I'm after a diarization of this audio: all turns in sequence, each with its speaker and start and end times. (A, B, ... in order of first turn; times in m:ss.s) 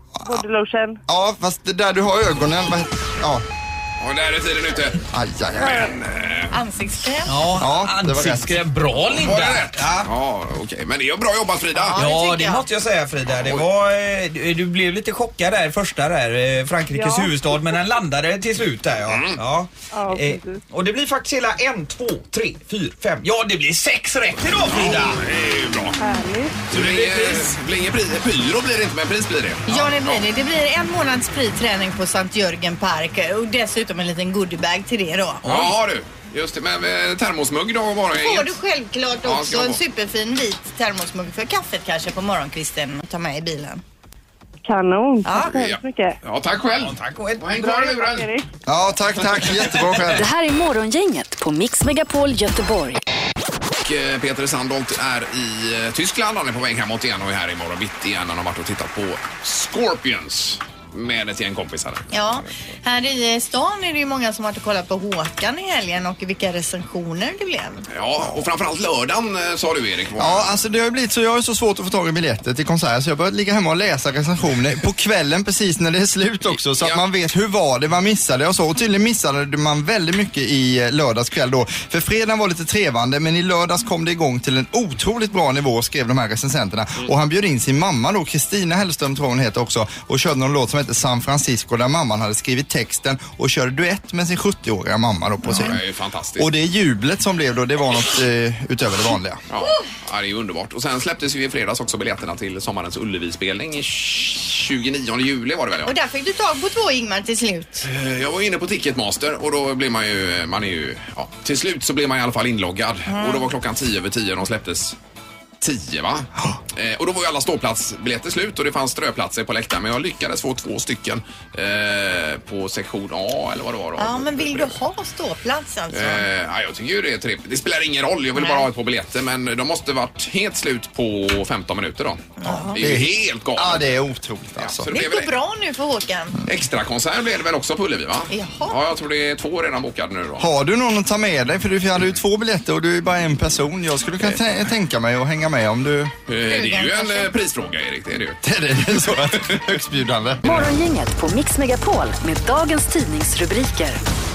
0:00.2-0:01.0 A
0:01.1-0:03.4 B
0:04.0-0:05.0 C
0:05.1-0:05.9 B
0:05.6-0:06.5 C
0:06.5-0:07.3 D
0:07.3-0:10.1 E
0:07.6-0:08.6 B
0:09.1-0:12.0 C
0:11.7-0:12.6 D
0:11.9-0:25.3 E
0:16.9-0:17.4 A
0:19.1-0:19.4 C
0:19.9-0:20.6 A
0:24.7-0:26.0 C
0:26.0-0:26.7 A
0:26.7-0:30.2 C
0:26.7-0:27.5 E
0:29.7-0:35.5 D
0:35.4-0:38.6 C
0:38.2-0:43.8 D
0:39.2-0:39.8 C
0:44.6-0:46.2 A
0:45.2-0:45.5 D
0:45.5-0:48.3 C
0:46.8-0:47.8 E
0:47.6-0:48.4 A
0:48.6-0:50.2 B
0:49.5-0:50.0 E
0:50.2-0:53.0 F
0:53.8-1:02.5 C
1:02.1-1:07.8 D
1:07.9-1:10.5 C
1:10.2-1:35.8 B
1:35.5-1:36.5 C
1:36.4-1:39.4 B
1:39.5-1:45.9 C
1:45.8-1:47.9 D
1:47.8-1:55.0 C
1:53.1-1:53.4 D
1:55.6-2:04.8 C
2:04.0-2:06.2 D
2:05.9-2:14.0 C
2:08.4-2:08.7 D
2:12.4-2:12.8 D
2:12.7-2:14.9 B
2:14.6-2:15.3 C
2:14.9-2:16.4 D
2:16.4-2:20.5 C
2:18.3-2:18.8 D
2:20.4-2:26.1 B
2:26.3-2:28.4 C
2:26.4-2:27.3 D
2:28.4-2:30.6 B
2:28.9-2:29.7 C
2:30.4-2:34.0 F